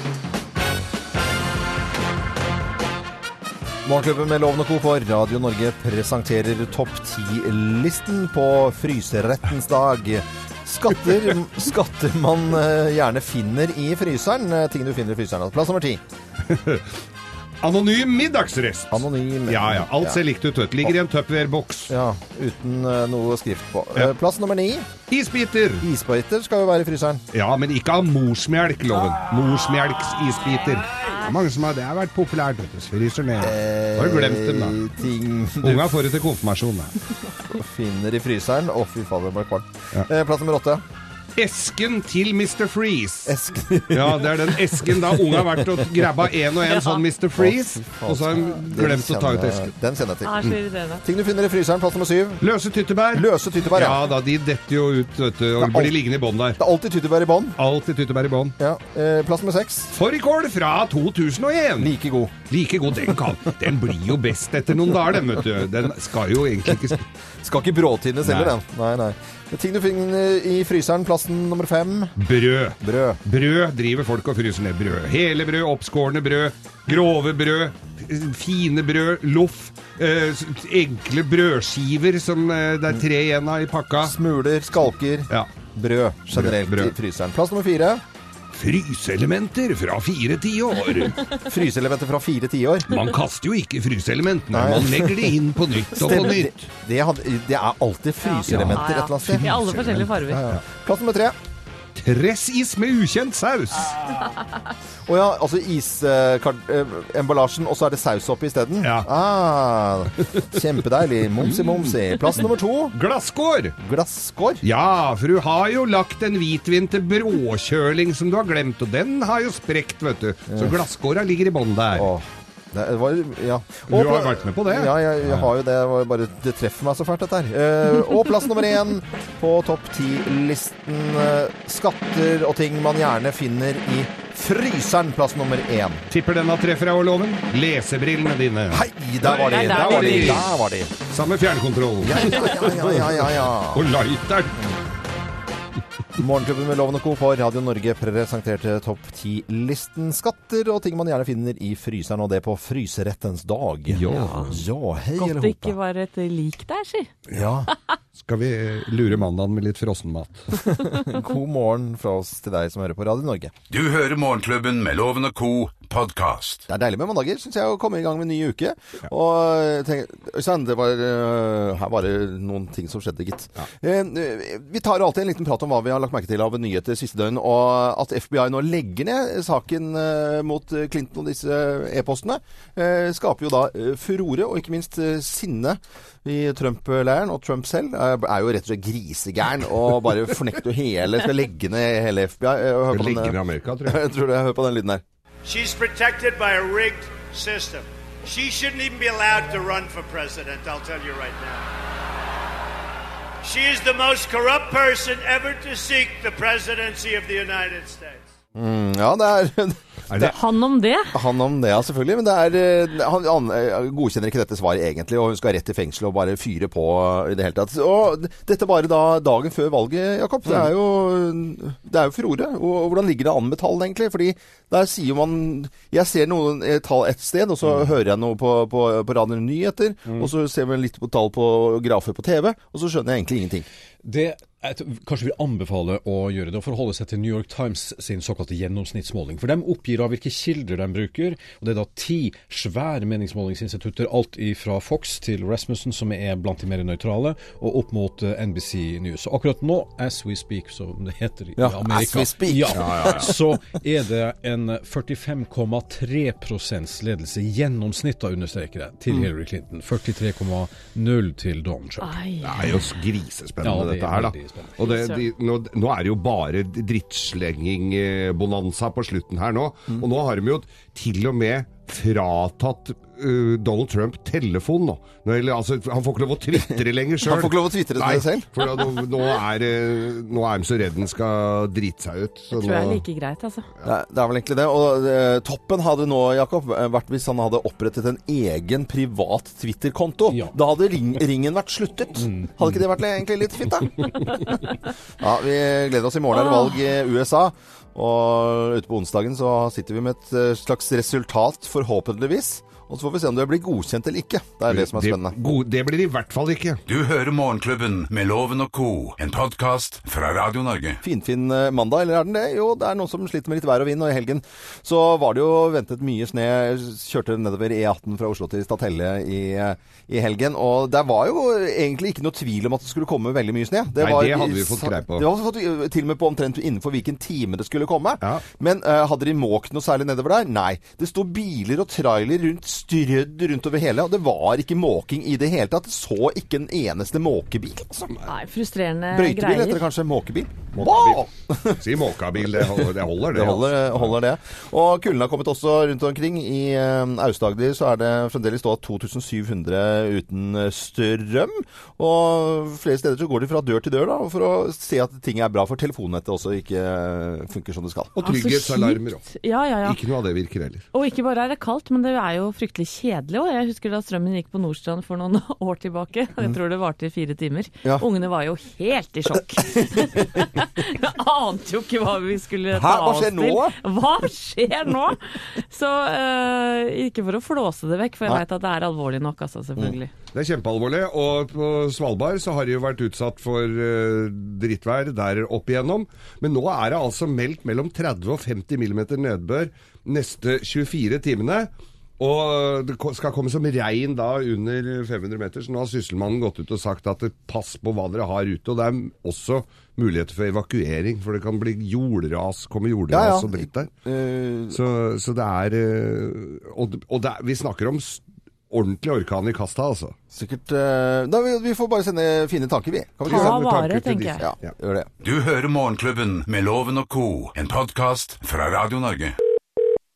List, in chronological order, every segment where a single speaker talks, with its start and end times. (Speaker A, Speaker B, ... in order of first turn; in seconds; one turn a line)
Speaker A: 3.9-16.0
Speaker B: 16.5-17.0
Speaker B: 17.6-21.9
Speaker A: 18.9-20.2
Speaker A: 21.9-24.9
Speaker B: 25.1-25.9
Speaker A: 25.8-27.2
Speaker B: 27.3-34.8
Speaker A: 33.4-36.0
Speaker B: 35.6-36.9
Speaker A: 37.5-40.8
Speaker B: 41.4-43.4
Speaker A: 43.3-45.9
Speaker B: 43.9-49.7
Speaker C: 46.6-47.0
Speaker A: 47.4-50.5
Speaker C: 50.2-51.0
Speaker A: 51.0-52.4
Speaker B: 52.4-56.6
Speaker A: 53.1-54.0
Speaker A: 55.6-56.0
Speaker A: 56.6-57.6
Speaker B: 57.6-58.5
Speaker A: 58.6-59.9
Speaker B: 59.9-67.0
Speaker A: 61.8-62.3
Speaker A: 67.4-72.1
Speaker B: 68.2-68.5
Speaker B: 72.2-84.2
Speaker A: 72.8-73.2
Speaker A: 84.0-88.0
Speaker B: 86.3-86.9
Speaker B: 88.5-91.3
Speaker A: 91.4-93.0
Speaker B: 92.9-96.7
Speaker A: 94.5-95.4
Speaker A: 96.0-101.4
Speaker C: 98.2-100.4
Speaker B: 98.5-98.8
Speaker B: 99.4-100.6
Speaker B: 102.0-103.9
Speaker A: 105.1-113.0
Speaker B: 108.8-109.1
Speaker B: 110.2-110.5
Speaker B: 111.4-111.9
Speaker B: 112.9-113.8
Speaker A: 113.8-114.6
Speaker B: 114.6-122.1
Speaker A: 120.5-120.8
Speaker A: 122.0-136.1
Speaker B: 123.9-125.5
Speaker B: 136.1-140.5
Speaker A: 138.7-141.0
Speaker C: 139.2-140.5
Speaker B: 141.0-144.6
Speaker A: 142.0-143.9
Speaker A: 146.2-155.8
Speaker B: 153.9-154.6
Speaker C: 154.1-154.6
Speaker C: 155.2-157.1
Speaker A: 157.3-157.7
Speaker B: 158.2-160.6
Speaker A: 160.8-163.5
Speaker D: 163.7-166.7
Speaker A: 166.7-195.0
Speaker B: 192.9-194.0
Speaker E: 195.4-201.7
Speaker E: 203.4-208.3
Speaker A: 208.6-210.3
Speaker B: 210.1-210.3
Speaker C: 210.2-211.2
Speaker A: 211.1-233.7
Speaker F: 234.0-262.2
Speaker A: 251.6-253.3
Speaker B: 252.7-253.3
Speaker C: 262.0-262.9
Speaker B: 262.4-283.0
Speaker F: 263.6-264.9
Speaker C: 264.8-265.2
Speaker A: 277.2-278.5
Speaker C: 282.5-283.7
Speaker A: 283.8-294.5
Speaker F: 290.3-290.6
Speaker F: 292.2-292.5
Speaker A: 295.2-305.4
Speaker C: 296.3-296.8
Speaker B: 304.7-306.8
Speaker D: 306.9-311.0
Speaker A: 311.0-338.1
Speaker B: 324.0-325.3
Speaker C: 338.3-339.9
Speaker A: 339.1-341.8
Speaker B: 340.8-344.1
Speaker A: 342.5-358.2
Speaker B: 358.2-359.2
Speaker C: 358.2-360.0
Speaker B: 359.8-360.9
Speaker C: 360.9-380.1
Speaker A: 369.8-370.4
Speaker A: 372.7-373.8
Speaker B: 380.3-403.9
Speaker A: 403.1-404.8
Speaker B: 404.7-410.1
Speaker A: 410.3-413.6
Speaker B: 413.2-414.7
Speaker C: 413.3-414.4
Speaker A: 414.4-415.1
Speaker D: 415.2-419.4